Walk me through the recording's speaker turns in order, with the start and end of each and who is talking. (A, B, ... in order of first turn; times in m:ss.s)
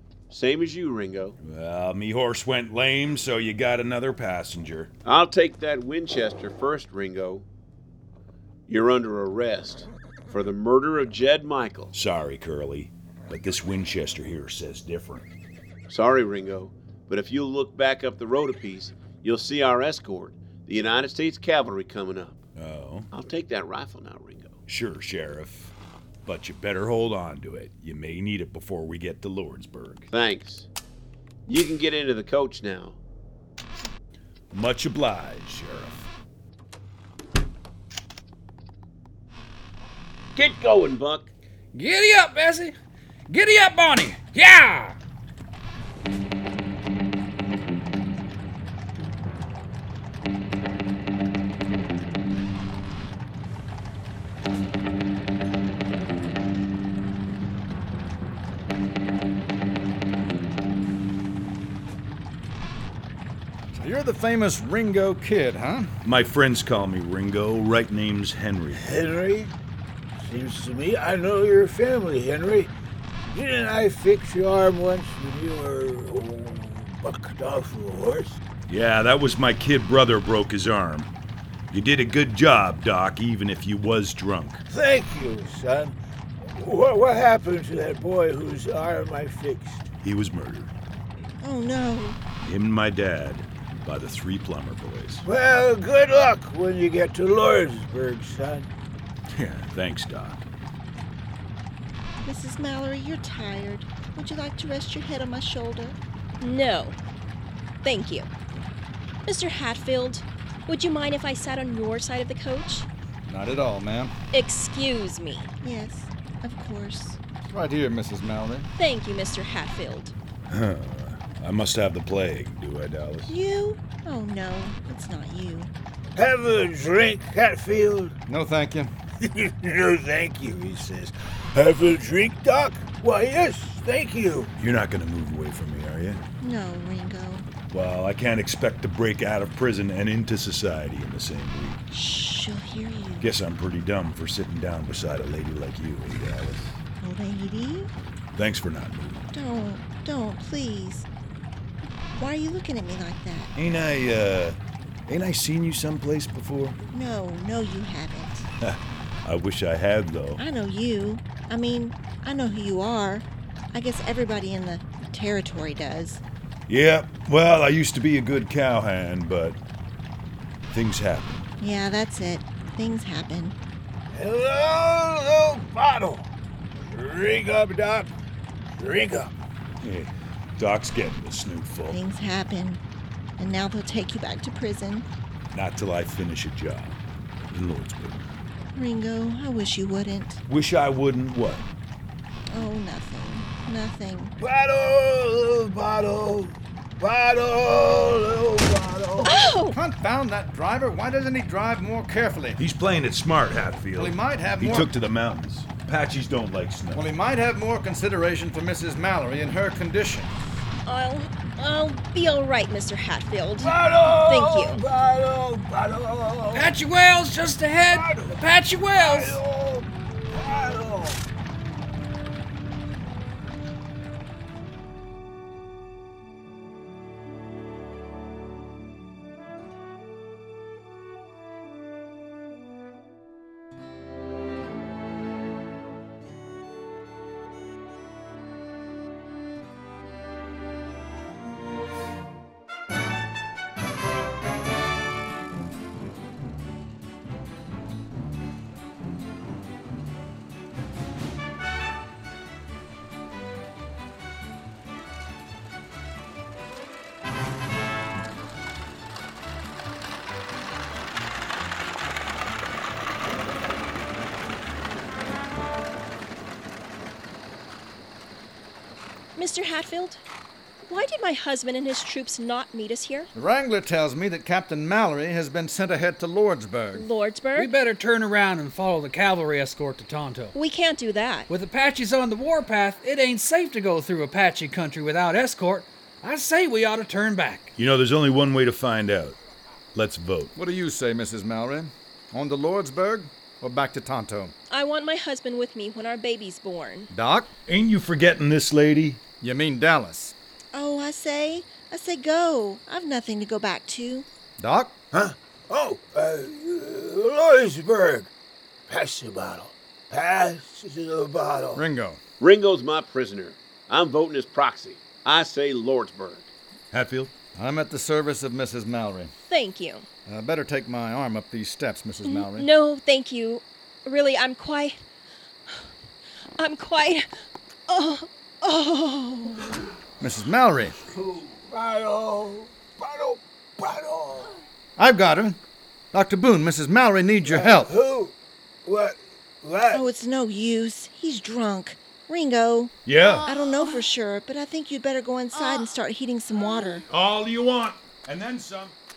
0:00.3-0:01.4 A
0:01.4-0:04.9 B
0:05.0-0:07.5 A
0:08.7-0:11.9 A
0:11.9-0:15.3 B
0:15.9-0:22.4 A
0:22.6-0:23.1 B
0:23.1-0:24.6 A
0:24.7-0:25.7 B
0:26.3-0:30.1 B
0:30.1-0:30.7 A
0:31.5-0:33.0 A
0:34.5-0:36.1 B
0:40.4-0:41.3 A
0:41.7-0:42.8 C
0:43.3-0:45.0 C
1:03.7-1:05.9 D
1:06.0-1:08.9 B
1:08.7-1:09.5 E
1:10.2-1:12.7 E
1:13.3-1:18.4 E
1:18.7-1:21.1 B
1:21.7-1:24.6 B
1:24.7-1:29.9 E
1:30.0-1:30.7 B
1:31.4-1:32.2 F
1:32.4-1:35.2 B
1:35.2-1:38.7 E
1:39.3-1:40.4 B
1:42.2-1:46.0 F
1:46.4-1:47.0 G
1:47.8-1:48.3 G
1:49.3-1:52.9 G
1:53.3-1:54.2 D
1:54.3-1:55.5 G
1:55.6-1:57.2 F
1:57.5-1:58.7 D
1:58.8-2:00.1 G
2:00.5-2:03.3 B
2:03.3-2:05.7 F
2:06.2-2:08.2 E
2:08.3-2:08.9 D
2:09.2-2:14.5 E
2:14.6-2:16.2 B
2:16.4-2:17.5 F
2:17.7-2:21.8 B
2:21.9-2:23.3 F
2:23.2-2:26.8 B
2:27.0-2:27.9 F
2:28.3-2:29.3 B
2:29.3-2:31.1 F
2:32.2-2:33.5 F
2:33.6-2:36.8 B
2:36.9-2:38.5 F
2:38.6-2:40.4 B
2:40.4-2:46.2 F
2:46.7-2:49.6 B
2:50.7-2:51.5 B
2:51.6-2:53.6 F
2:54.1-2:56.3 E
2:56.8-2:58.1 E
2:58.8-2:59.3 E
2:59.8-3:02.0 B
3:01.9-3:02.8 F
3:03.4-3:05.1 F
3:05.5-3:07.0 B
3:07.5-3:08.3 B
3:08.7-3:10.4 F
3:10.5-3:11.7 B
3:12.5-3:14.3 F
3:14.4-3:19.5 E
3:19.2-3:19.8 G
3:19.6-3:22.6 D
3:22.6-3:27.0 B
3:24.0-3:24.9 D
3:26.9-3:30.4 D
3:30.9-3:34.8 G
3:33.6-3:36.8 E
3:36.5-3:39.4 C
3:37.9-3:38.4 E
3:38.9-3:41.2 E
4:29.4-4:30.2 G
4:30.9-4:33.3 G
4:33.3-4:37.1 D
4:37.0-4:37.7 G
4:37.6-4:40.5 C
4:40.6-4:41.5 G
4:41.5-4:47.7 C
4:47.8-4:49.4 B
4:49.9-4:50.5 B
4:50.6-4:54.5 D
4:54.7-4:57.1 G
4:57.1-4:57.5 D
4:57.7-4:59.2 B
4:59.4-5:00.4 D
5:00.7-5:04.3 F
5:04.6-5:05.0 D
5:05.1-5:08.3 E
5:08.9-5:11.8 E
5:11.8-5:12.2 D
5:12.4-5:16.5 A
5:16.9-5:17.3 B
5:17.6-5:19.3 D
5:19.5-5:20.1 G
5:20.3-5:22.7 D
5:22.3-5:25.0 G
5:26.6-5:27.3 G
5:27.9-5:29.7 G
5:30.2-5:31.0 D
5:31.1-5:34.6 E
5:35.0-5:35.6 D
5:36.1-5:37.9 D
5:37.5-5:38.3 E
5:38.8-5:40.1 E
5:39.9-5:43.0 F
5:43.0-5:43.5 B
5:43.5-5:47.1 F
5:47.1-5:49.0 B